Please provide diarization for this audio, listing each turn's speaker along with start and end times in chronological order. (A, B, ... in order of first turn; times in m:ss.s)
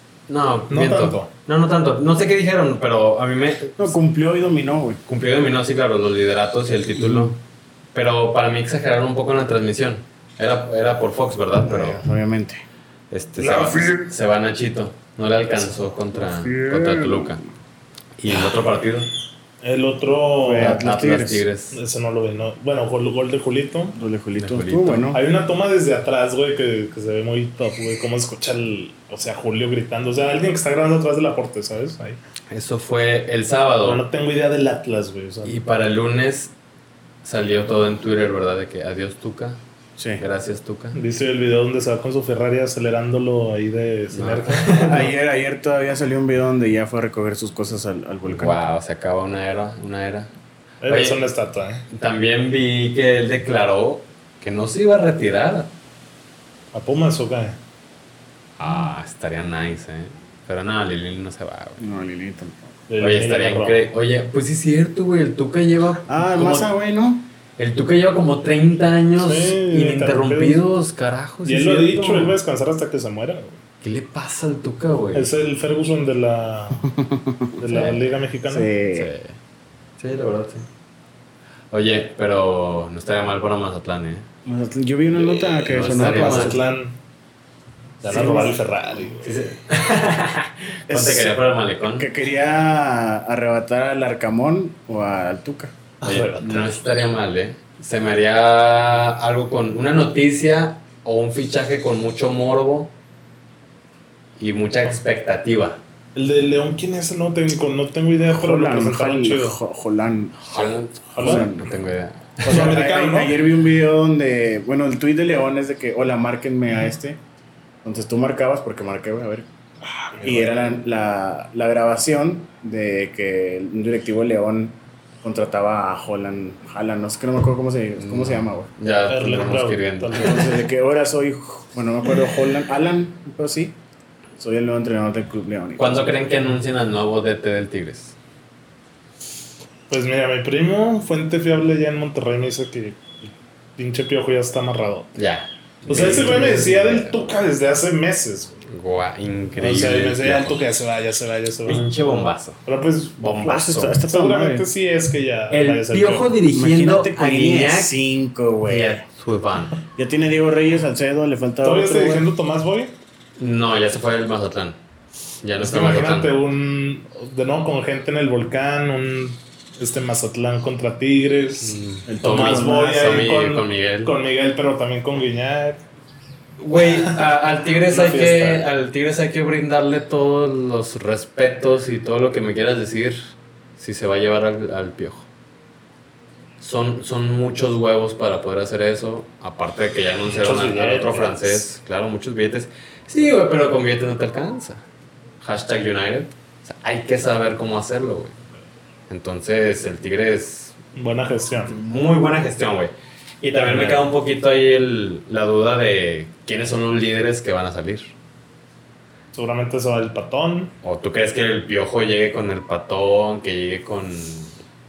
0:00.3-0:03.9 A
0:00.7-0:01.3 B
0:03.8-0:05.0 C
0:05.1-0:07.4 A
0:07.0-0:07.3 C
0:07.9-0:12.0 A
0:11.6-0:12.6 C
0:13.1-0:17.4 A
0:13.4-0:14.0 C
0:16.2-0:17.4 C
0:18.2-0:19.1 A
0:19.6-0:20.8 B
0:20.4-0:21.4 C
0:20.6-0:21.8 A
0:21.7-0:24.0 B
0:23.9-0:25.2 C
0:24.4-0:25.2 A
0:25.1-0:32.2 B
0:32.5-0:34.0 A
0:33.8-0:35.5 B
0:35.4-0:36.5 A
0:37.2-0:39.6 A
0:40.0-0:40.2 C
0:40.2-0:41.0 A
0:40.9-0:45.0 B
0:44.1-0:45.1 A
0:44.7-0:48.6 C
0:48.3-0:50.3 A
0:50.8-0:51.8 B
0:50.9-0:51.2 A
0:51.9-0:55.7 A
0:56.7-0:57.6 B
0:58.6-1:01.8 A
1:01.8-1:02.7 C
1:02.9-1:03.9 B
1:03.0-1:06.7 A
1:06.1-1:07.3 C
1:07.6-1:12.4 A
1:09.2-1:10.6 B
1:11.4-1:13.6 B
1:13.8-1:15.3 A
1:15.1-1:16.9 B
1:16.8-1:17.6 C
1:17.6-1:18.7 B
1:17.7-1:18.1 A
1:18.5-1:19.1 C
1:18.9-1:19.3 A
1:20.0-1:20.7 A
1:21.7-1:24.3 A
1:24.4-1:26.6 C
1:25.1-1:26.6 A
1:26.0-1:27.0 B
1:28.0-1:29.4 B
1:28.0-1:28.6 C
1:29.2-1:32.1 A
1:30.9-1:35.7 C
1:36.0-1:36.7 B
1:36.0-1:42.9 A
1:44.4-1:45.8 A
1:46.1-1:49.6 B
1:48.3-1:50.6 C
1:50.5-1:52.7 A
1:51.1-1:51.5 B
1:51.2-1:51.7 C
1:52.4-1:53.4 B
1:52.4-1:57.2 C
1:57.8-1:59.5 C
1:59.8-2:00.6 B
2:00.2-2:08.7 C
2:08.0-2:10.6 A
2:09.1-2:10.5 B
2:10.2-2:13.7 C
2:14.4-2:16.2 C
2:15.8-2:18.1 A
2:19.9-2:25.2 B
2:25.1-2:27.2 A
2:25.9-2:28.6 B
2:28.7-2:30.6 A
2:29.6-2:36.3 B
2:31.7-2:32.6 A
2:33.2-2:34.0 A
2:33.4-2:34.6 C
2:35.5-2:37.9 A
2:36.5-2:39.0 C
2:38.6-2:39.8 A
2:39.9-2:42.3 C
2:41.6-2:42.9 B
2:43.4-2:44.8 A
2:45.4-2:46.3 A
2:45.6-2:55.8 B
2:51.6-2:54.1 A
2:52.1-2:53.0 C
2:56.6-3:03.2 A
2:56.8-2:57.2 B
2:57.9-2:58.7 B
3:03.8-3:05.3 A
3:06.6-3:14.8 A
3:10.3-3:11.6 B
3:15.4-3:18.3 A
3:19.1-3:20.8 A
3:21.0-3:21.8 B
3:21.6-3:28.1 A
3:23.6-3:24.1 B
3:29.3-3:30.7 B
3:30.8-3:34.6 A